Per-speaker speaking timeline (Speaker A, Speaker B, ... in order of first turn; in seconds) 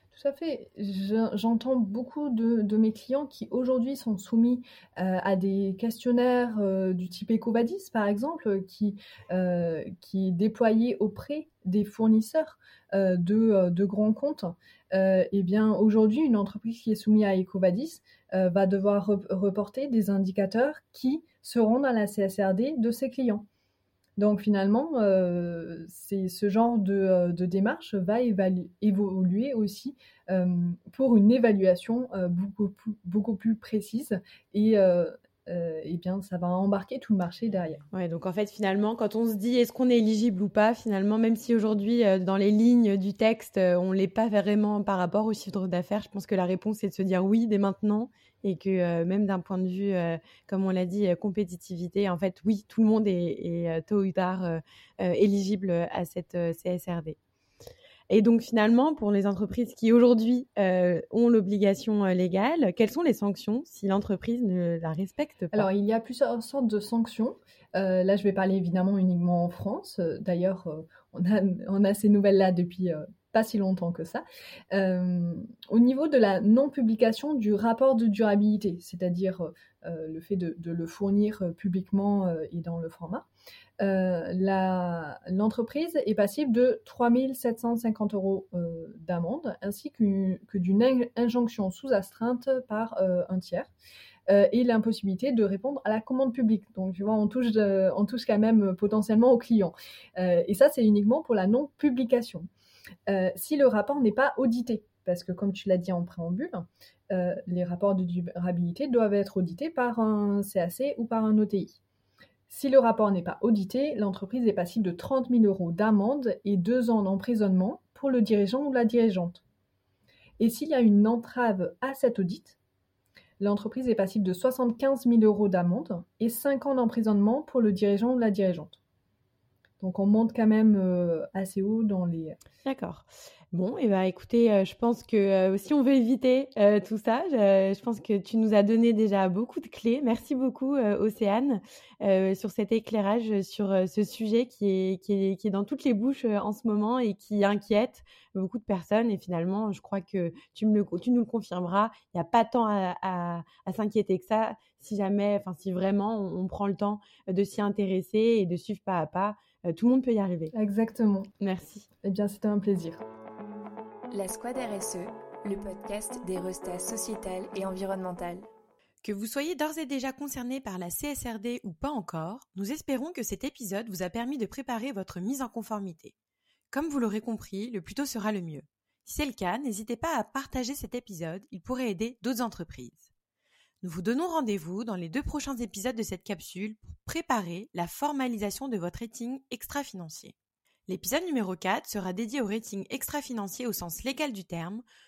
Speaker A: 0.1-23.5, 24.2-37.8, 65.5-83.3, 83.8-93.7, 94.3-102.5, 103.1-111.8, 112.5-119.4, 120.4-122.6, 123.4-128.8, 129.8-132.4, 160.5-161.3, 162.0-163.0
Speaker B: 37.9-57.2, 58.1-65.7, 132.6-160.5, 161.4-161.9, 169.0-176.1, 176.7-183.1, 183.8-190.3, 190.9-194.8
Speaker C: 164.1-168.5